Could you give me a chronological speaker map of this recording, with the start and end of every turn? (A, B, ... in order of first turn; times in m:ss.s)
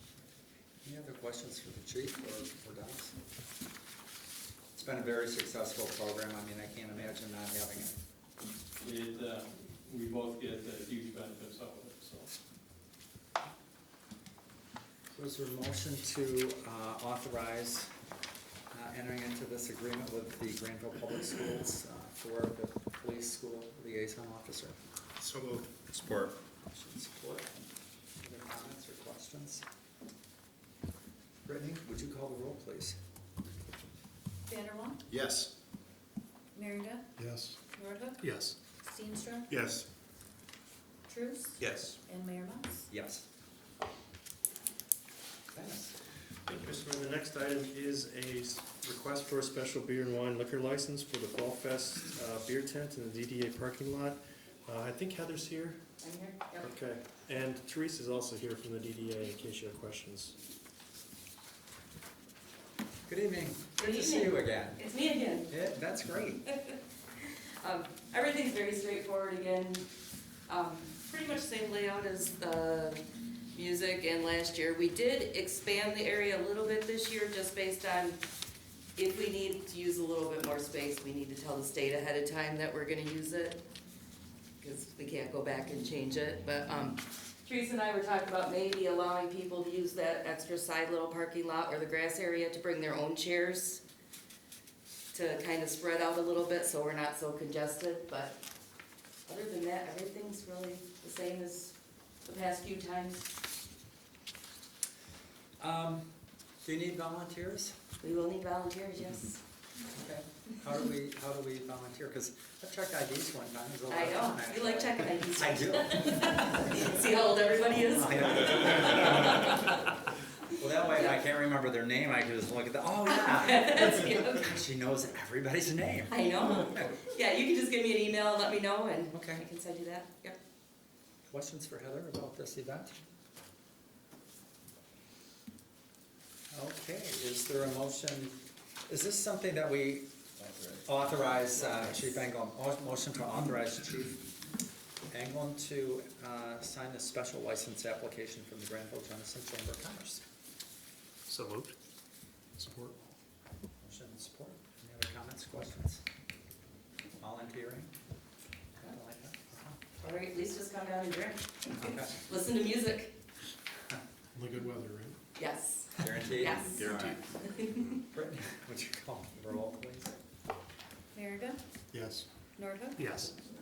0:00.8-0:03.2 A
0:04.7-0:08.0 A
0:08.8-0:12.4 B
0:15.1-0:17.9 A
0:18.7-0:24.8 A
0:25.2-0:26.3 C
0:26.6-0:27.6 A
0:28.2-0:29.6 A
0:31.4-0:33.0 A
0:34.5-0:35.0 D
0:35.1-0:35.5 C
0:36.5-0:37.1 D
0:37.2-0:37.5 C
0:37.7-0:38.2 D
0:38.2-0:38.6 E
0:38.8-0:39.5 D
0:39.5-0:39.8 C
0:41.1-0:42.9 D
0:41.6-0:42.0 C
0:42.9-0:43.2 A
0:45.5-0:46.0 A
0:46.5-0:55.9 E
0:56.0-0:56.7 F
0:56.6-1:00.4 E
1:03.1-1:04.9 A
1:03.8-1:05.5 F
1:05.5-1:06.4 A
1:06.5-1:06.8 F
1:07.6-1:09.9 F
1:10.5-1:18.2 F
1:19.0-1:23.6 F
1:24.6-1:33.8 F
1:35.1-1:38.4 F
1:39.2-1:43.3 F
1:45.6-1:47.8 A
1:48.0-1:49.4 F
1:49.9-1:57.0 A
1:53.9-1:59.8 F
1:57.8-1:59.9 A
2:00.5-2:07.0 A
2:00.9-2:01.2 F
2:03.1-2:04.4 F
2:06.1-2:10.4 F
2:09.1-2:09.4 A
2:11.3-2:13.0 A
2:16.5-2:20.1 A
2:20.7-2:24.2 A
2:25.1-2:30.2 A
2:31.3-2:31.8 E
2:32.6-2:33.0 E
2:33.8-2:36.0 A
2:37.2-2:37.9 A
2:38.8-2:39.8 A
2:40.0-2:43.1 F
2:41.8-2:42.2 A
2:44.4-2:45.2 E
2:45.4-2:47.8 F
2:46.0-2:47.2 A
2:46.9-2:47.1 C
2:48.1-2:50.2 A
2:51.1-2:51.6 D
2:51.9-2:52.2 E
2:52.6-2:53.1 D
2:53.0-2:53.3 E